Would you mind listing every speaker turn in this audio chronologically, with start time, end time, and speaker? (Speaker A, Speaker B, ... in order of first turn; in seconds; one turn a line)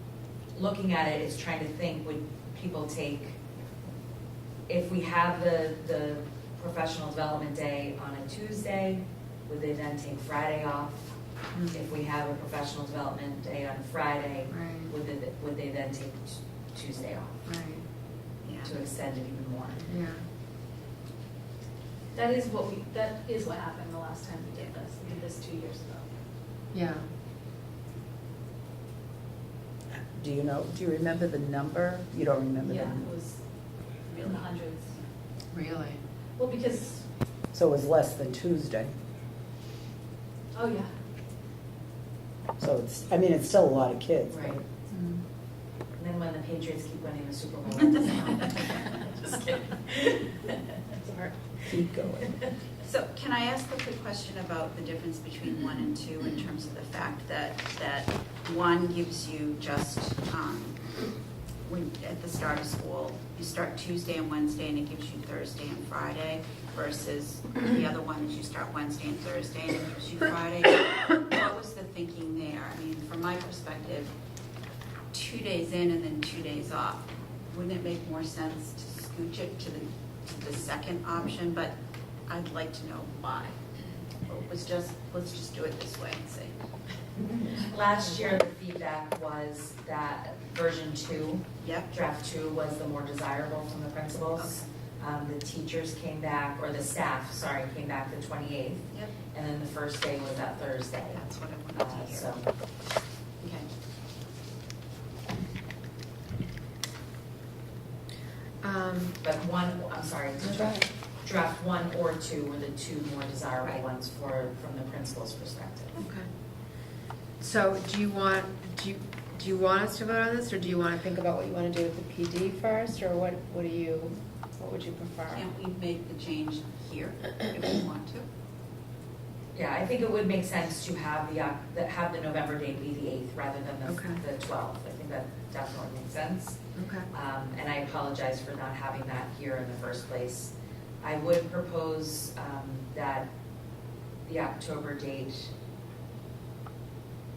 Speaker A: 0.5-3.4
Speaker A: 4.7-11.1
Speaker B: 11.5-11.8
Speaker A: 11.7-17.4
Speaker B: 14.5-14.9
Speaker B: 17.4-17.8
Speaker C: 18.4-18.7
Speaker A: 18.6-19.9
Speaker B: 19.9-20.2
Speaker D: 22.1-26.1
Speaker B: 26.7-27.1
Speaker E: 30.1-33.1
Speaker D: 32.6-33.4
Speaker C: 34.1-34.4
Speaker D: 34.2-34.9
Speaker B: 35.5-36.0
Speaker D: 36.4-37.0
Speaker E: 37.5-38.9
Speaker D: 40.5-40.9
Speaker E: 42.6-44.6
Speaker A: 44.3-44.6
Speaker B: 44.9-45.2
Speaker A: 45.9-50.5
Speaker D: 51.0-51.3
Speaker E: 51.7-52.3
Speaker C: 52.8-60.9
Speaker C: 61.6-74.1
Speaker C: 75.1-81.7
Speaker C: 82.3-83.6
Speaker C: 84.2-86.6
Speaker A: 87.5-102.4
Speaker C: 91.6-91.9
Speaker C: 94.4-94.6
Speaker C: 101.1-102.3
Speaker C: 103.4-103.7
Speaker B: 108.6-109.2
Speaker A: 109.2-116.0
Speaker B: 110.4-110.8
Speaker B: 116.0-116.3
Speaker B: 117.4-125.5
Speaker C: 125.3-128.2
Speaker A: 129.5-136.6
Speaker B: 133.8-134.2
Speaker B: 136.8-137.1
Speaker A: 137.1-143.3
Speaker A: 144.2-145.5